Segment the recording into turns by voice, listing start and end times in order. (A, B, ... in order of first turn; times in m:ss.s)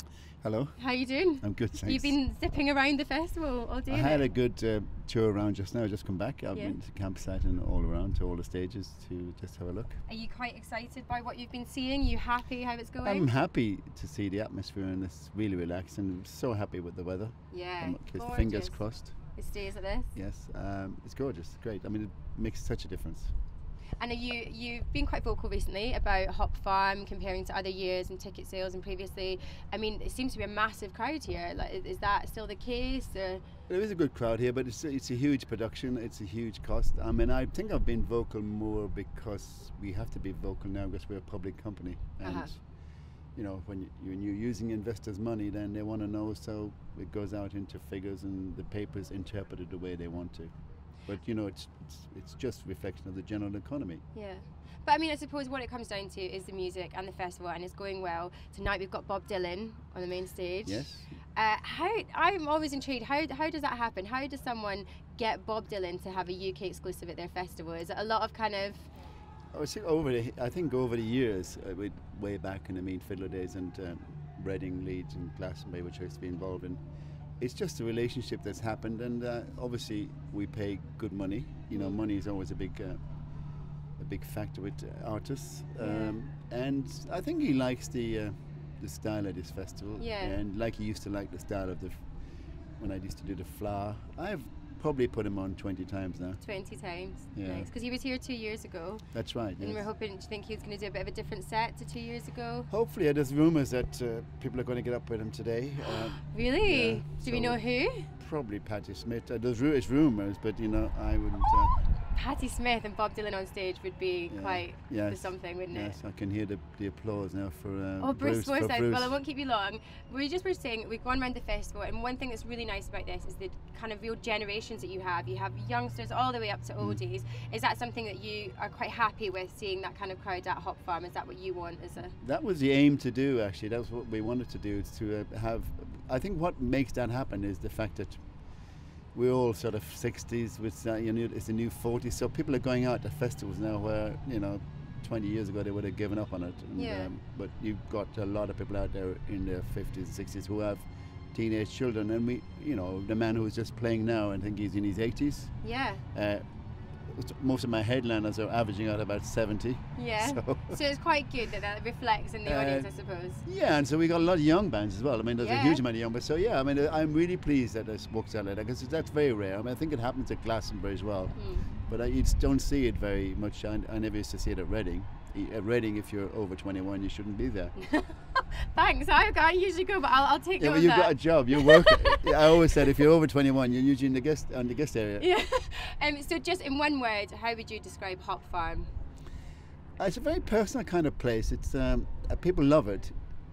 0:00.4-0:00.8 A
0:00.8-0:04.3 B
0:01.4-0:02.2 A
0:03.9-0:10.0 A
0:10.1-0:13.3 B
0:13.0-0:19.2 A
0:17.5-0:20.1 B
0:20.2-0:23.3 A
0:24.0-0:33.4 B
0:33.7-0:54.0 A
0:42.2-0:42.5 B
0:54.1-1:08.9 B
1:00.6-1:01.2 A
1:09.5-1:16.8 A
1:17.4-1:23.0 A
1:21.7-1:22.0 B
1:24.0-1:36.4 A
1:25.8-1:26.2 B
1:30.0-1:30.4 B
1:36.4-1:42.7 B
1:37.3-1:37.7 A
1:39.1-1:39.9 A
1:42.7-1:51.8 A
1:46.3-1:48.1 B
1:52.1-1:56.0 B
1:54.3-1:59.2 A
1:58.0-2:12.2 B
2:12.2-2:18.4 A
2:19.1-2:36.4 A
2:26.8-2:27.1 B
2:35.6-2:36.0 B
2:37.0-2:40.8 A
2:40.0-2:43.4 B
2:42.4-2:57.8 A
2:45.4-2:45.8 B
2:51.4-2:51.7 B
2:57.8-3:02.4 B
3:00.6-3:05.3 A
3:05.2-3:08.9 B
3:10.0-3:13.2 A